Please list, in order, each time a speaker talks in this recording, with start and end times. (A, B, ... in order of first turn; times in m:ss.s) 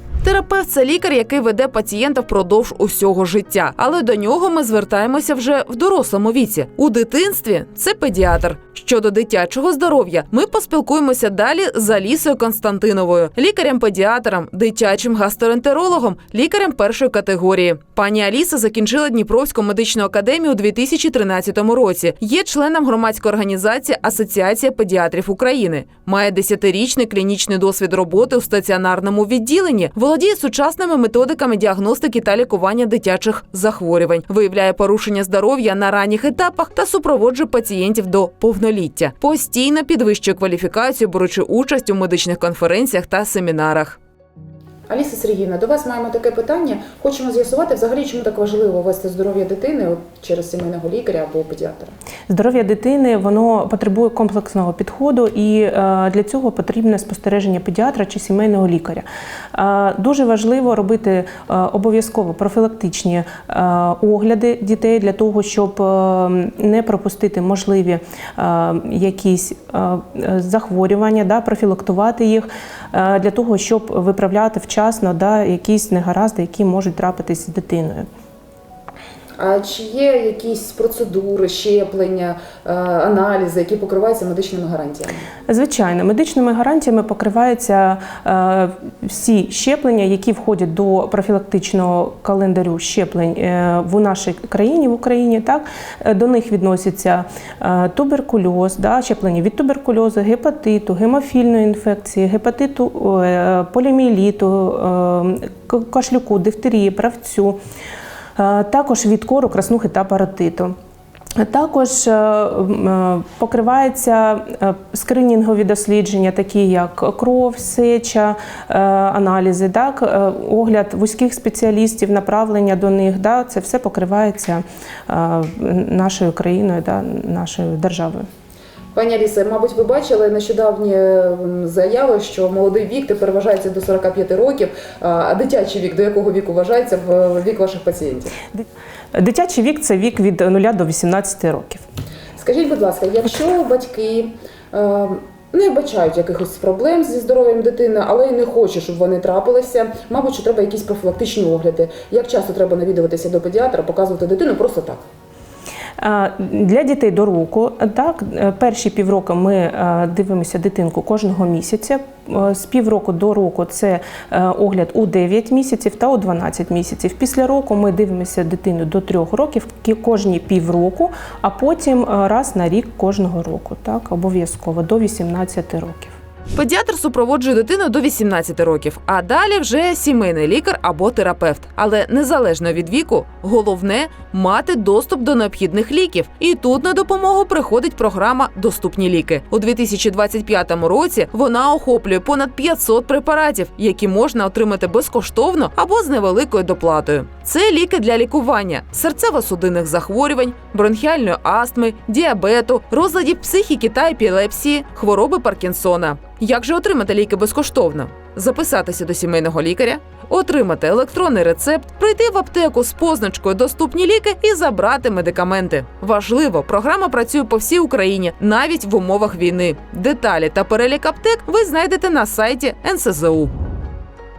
0:00.2-0:44.0 A
0:44.9-0:51.9 B
0:52.3-1:18.1 C
1:19.4-1:25.2 B
1:25.5-1:47.6 C
1:48.4-1:50.7 C
1:51.4-2:08.2 C
2:09.0-2:18.3 B
2:19.1-2:21.8 C
2:22.4-2:35.0 B
2:36.0-2:56.1 C
2:56.6-3:43.5 A